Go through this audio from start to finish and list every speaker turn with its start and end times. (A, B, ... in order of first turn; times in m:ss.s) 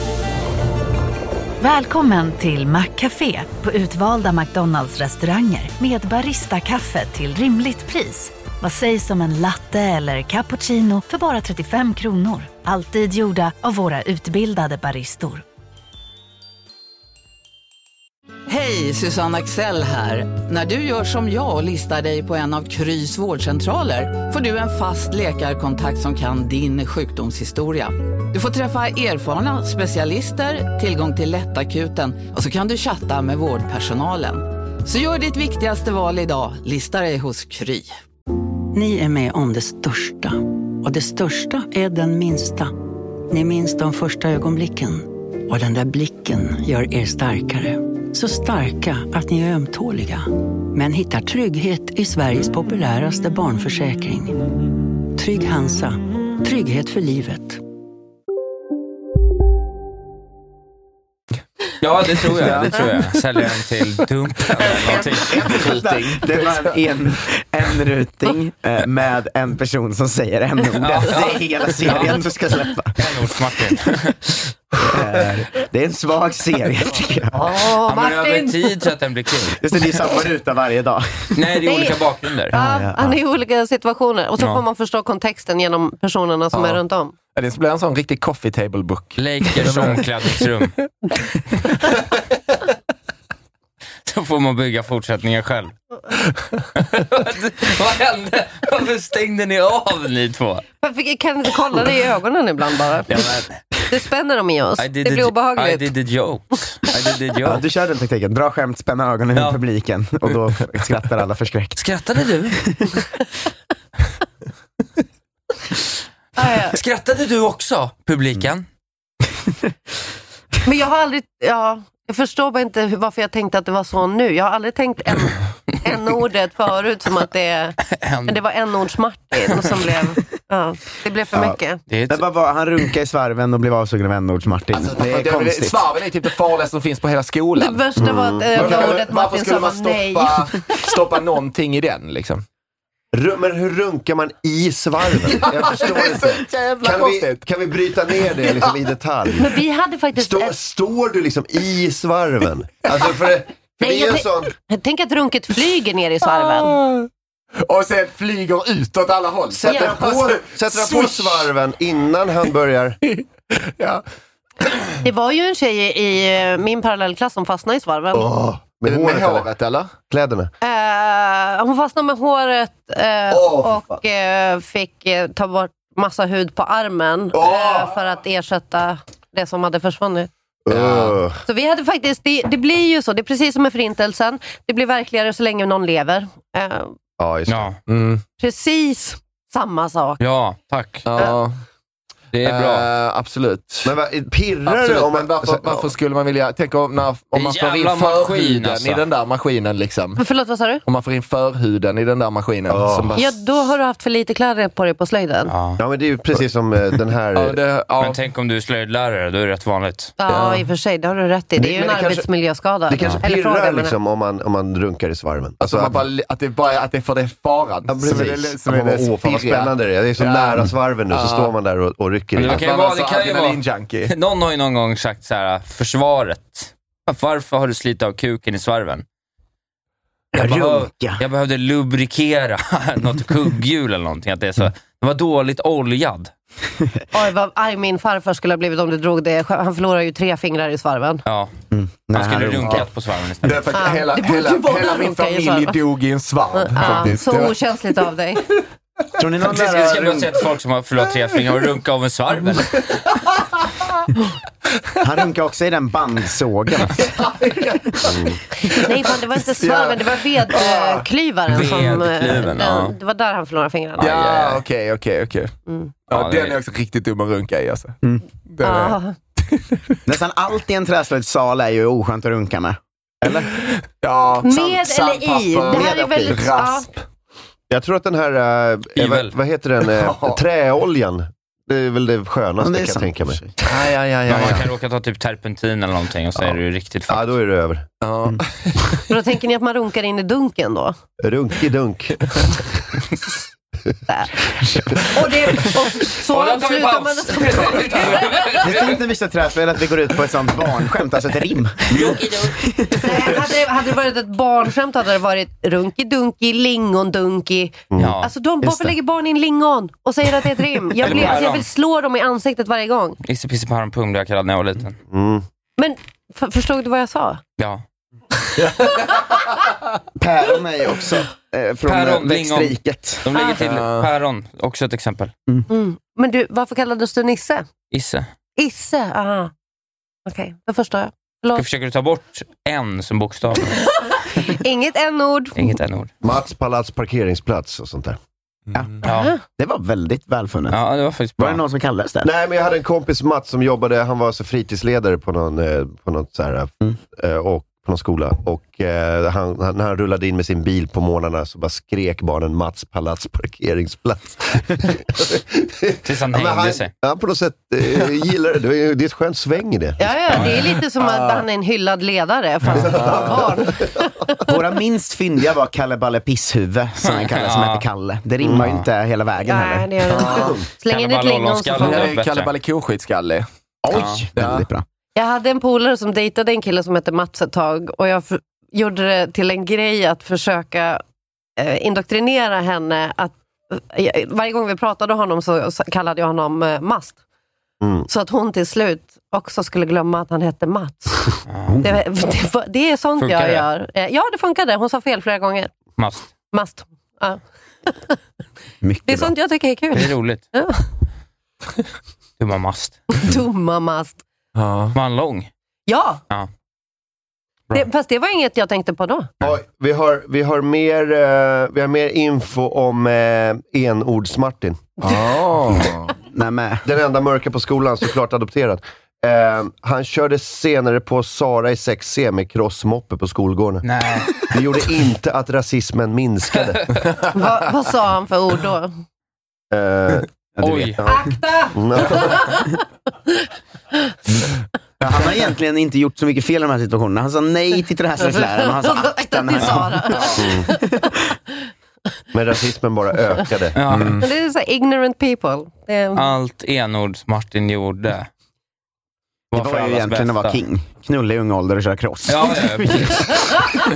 0:01.6-0:15.4 A
0:18.5-0:38.0 B
0:38.7-0:42.7 C
0:43.3-0:57.6 C
1:01.8-1:05.8 D
1:02.4-1:02.8 E
1:04.6-1:06.7 E
1:05.3-1:13.2 F
1:10.8-1:12.2 D
1:13.0-1:14.2 D
1:14.8-1:17.4 F
1:17.3-1:18.7 G
1:17.8-1:19.6 D
1:19.6-1:21.6 F
1:21.3-1:22.5 D
1:21.6-1:22.0 G
1:22.5-1:23.2 F
1:22.5-1:27.1 G
1:26.5-1:26.8 E
1:27.3-1:30.4 E
1:29.2-1:30.7 D
1:34.1-1:35.7 D
1:36.8-1:40.6 D
1:40.8-1:43.2 G
1:43.1-1:43.5 D
1:43.9-1:45.9 G
1:44.8-1:47.6 D
1:47.4-1:51.8 F
1:51.8-1:52.6 D
1:56.4-1:56.8 G
1:56.7-1:58.6 D
2:00.6-2:11.8 G
2:07.9-2:08.4 D
2:11.9-2:12.2 D
2:12.1-2:15.8 F
2:14.7-2:17.8 E
2:17.6-2:20.5 G
2:18.0-2:19.0 H
2:18.5-2:22.4 E
2:23.1-2:29.5 H
2:25.2-2:27.4 E
2:28.4-2:28.7 E
2:29.4-2:30.5 G
2:30.1-2:34.5 H
2:33.8-2:36.8 G
2:36.7-2:37.1 E
2:37.6-2:41.5 E
2:39.5-2:43.0 H
2:39.7-2:39.9 G
2:43.0-2:44.0 E
2:45.0-2:48.3 G
2:48.1-2:49.5 H
2:48.8-2:49.9 E
2:50.1-2:50.5 H
2:50.6-3:00.3 G
2:53.3-2:53.7 E
2:57.3-2:57.9 E
3:00.6-3:01.4 H
3:00.7-3:01.2 E
3:01.4-3:06.9 G
3:07.2-3:07.7 H
3:07.5-3:07.8 D
3:07.9-3:08.2 E
3:08.4-3:10.2 G
3:10.2-3:11.0 D
3:11.0-3:11.6 E
3:12.3-3:12.9 D
3:12.4-3:13.9 E
3:13.8-3:15.9 H
3:14.6-3:20.2 E
3:17.3-3:19.0 D
3:20.2-3:20.8 G
3:20.8-3:23.3 E
3:22.7-3:23.2 H
3:23.1-3:25.5 G
3:25.5-3:25.8 D
3:25.8-3:27.6 H
3:27.3-3:28.2 E
3:28.0-3:30.1 D
3:30.2-3:33.9 G
3:30.3-3:30.6 E
3:31.6-3:32.2 H
3:32.9-3:36.0 H
3:35.6-3:41.5 E
3:37.9-3:42.6 H
3:42.4-3:49.0 D
3:42.4-3:44.1 E
3:50.3-3:51.2 F
3:50.3-3:56.3 D
3:57.1-4:01.2 G
4:01.2-4:01.5 D
4:01.7-4:02.8 F
4:02.1-4:03.5 D
4:03.4-4:07.6 E
4:03.7-4:05.8 G
4:06.5-4:08.4 G
4:09.2-4:10.3 F
4:09.5-4:12.9 D
4:15.0-4:17.1 F
4:17.2-4:17.9 E
4:18.0-4:18.4 H
4:18.7-4:24.6 G
4:19.5-4:21.0 E
4:21.5-4:22.9 D
4:24.0-4:25.5 E
4:26.1-4:28.0 E
4:26.1-4:26.6 D
4:28.5-4:29.6 E
4:28.6-4:29.1 G
4:30.1-4:33.6 F
4:33.6-4:37.0 E
4:34.4-4:36.9 G
4:35.7-4:36.3 F
4:37.7-4:44.7 H
4:39.0-4:39.3 D
4:39.9-4:40.4 E
4:42.6-4:43.5 F
4:44.3-4:47.3 D
4:47.1-4:47.9 H
4:48.0-4:49.0 E
4:49.1-4:50.9 G
4:51.2-4:52.7 H
4:55.0-4:58.6 G
4:56.3-4:59.0 D
4:58.6-5:03.3 F
5:01.9-5:02.6 D
5:03.0-5:13.2 G
5:08.0-5:08.3 D
5:11.0-5:11.6 D
5:11.0-5:11.3 H
5:13.2-5:15.0 D
5:15.1-5:15.4 H
5:15.8-5:17.4 G
5:18.6-5:19.2 E
5:20.2-5:23.2 F
5:21.8-5:25.3 D
5:23.6-5:24.1 E
5:25.7-5:27.7 G
5:27.9-5:28.3 D
5:28.6-5:29.5 G
5:30.2-5:31.6 G
5:31.5-5:33.9 D
5:34.4-5:35.7 G
5:35.6-5:36.1 D
5:36.2-5:38.2 H
5:39.0-5:39.3 D
5:39.0-5:39.4 G
5:39.5-5:40.8 F
5:40.7-5:41.6 D
5:41.4-5:42.3 F
5:42.2-6:01.4 H
5:56.0-5:56.9 D
6:00.0-6:03.9 G
6:02.7-6:04.1 H
6:02.8-6:03.3 E
6:04.4-6:10.2 F
6:07.0-6:07.8 D
6:08.4-6:08.7 H
6:08.6-6:08.8 D
6:09.5-6:12.1 G
6:10.1-6:10.5 E
6:10.2-6:10.6 H
6:10.8-6:12.5 D
6:11.8-6:13.4 E
6:13.8-6:14.8 F
6:13.9-6:14.2 D
6:14.4-6:14.6 E
6:15.2-6:21.0 G
6:21.6-6:27.2 G
6:27.8-6:28.1 H
6:28.1-6:35.7 G
6:31.5-6:31.8 D
6:33.2-6:33.6 D
6:36.0-6:36.3 D
6:36.5-6:38.2 G
6:38.8-6:39.3 F
6:39.0-6:40.8 G
6:39.9-6:40.4 D
6:42.4-6:43.0 D
6:43.2-6:44.2 G
6:44.5-6:45.0 E
6:44.9-6:45.5 D
6:45.9-6:46.2 G
6:47.7-6:49.3 G
6:49.4-6:55.0 H
6:55.0-6:56.1 E
6:56.3-6:56.8 F
6:56.8-7:03.8 H
7:03.8-7:04.6 D
7:04.5-7:06.9 H
7:07.3-7:08.9 G
7:09.7-7:10.3 H
7:10.6-7:10.9 F
7:10.6-7:11.0 D
7:11.0-7:12.6 H
7:11.0-7:12.8 G
7:15.0-7:21.2 F
7:18.2-7:20.9 G
7:20.4-7:20.7 H
7:22.3-7:23.8 H
7:23.7-7:24.2 D
7:23.9-7:24.2 E
7:24.2-7:26.2 G
7:26.1-7:28.3 D
7:29.5-7:30.6 D
7:29.5-7:33.2 F
7:32.3-7:33.3 D